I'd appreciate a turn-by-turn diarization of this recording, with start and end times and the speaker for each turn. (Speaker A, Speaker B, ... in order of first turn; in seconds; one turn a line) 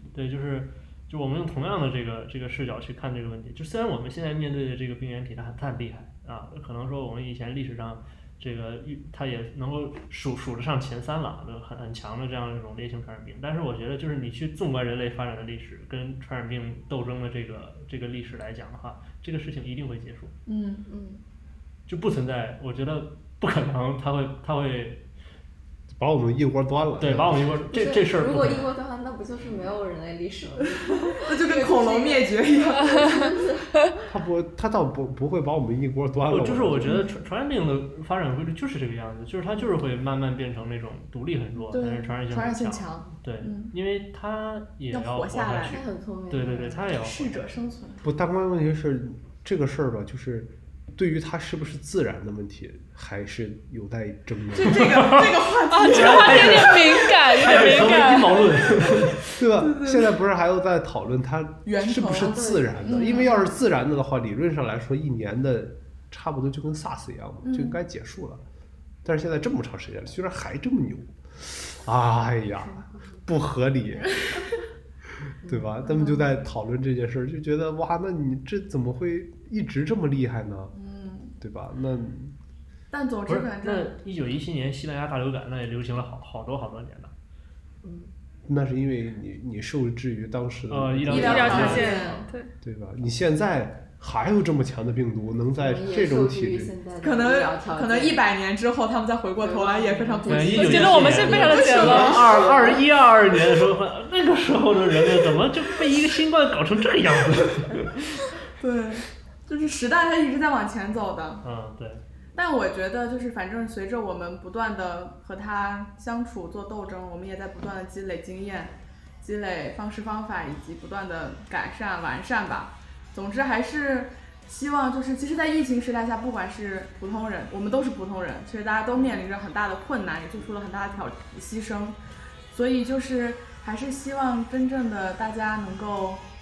Speaker A: 0.1-20.3
Speaker B: 20.4-20.9
Speaker C: 20.9-21.2
Speaker A: 21.9-25.0
Speaker D: 25.9-27.5
Speaker A: 27.0-28.7
Speaker C: 27.7-33.9
Speaker B: 30.7-33.4
Speaker D: 34.0-37.0
Speaker A: 36.3-47.5
Speaker B: 36.9-37.1
Speaker B: 41.7-43.7
Speaker B: 44.9-45.8
Speaker C: 45.7-46.8
Speaker B: 46.9-48.0
Speaker D: 48.0-55.0
Speaker B: 54.5-57.8
Speaker A: 54.8-59.4
Speaker E: 55.7-58.5
Speaker D: 59.3-68.4
Speaker B: 59.6-60.1
Speaker B: 61.6-63.5
Speaker C: 62.1-63.3
Speaker B: 67.4-67.8
Speaker D: 69.0-74.5
Speaker C: 72.5-73.2
Speaker D: 75.2-80.7
Speaker C: 75.4-76.4
Speaker B: 80.7-81.4
Speaker D: 81.4-82.4
Speaker B: 82.9-83.9
Speaker A: 83.2-87.1
Speaker C: 87.8-88.1
Speaker D: 88.5-91.9
Speaker A: 90.7-92.0
Speaker B: 91.1-92.3
Speaker E: 91.1-92.5
Speaker C: 91.6-92.2
Speaker D: 92.6-96.7
Speaker C: 95.5-98.3
Speaker B: 97.0-102.8
Speaker C: 99.4-102.8
Speaker A: 100.2-108.3
Speaker E: 100.5-102.3
Speaker B: 108.5-111.4
Speaker A: 111.4-112.0
Speaker B: 112.3-136.2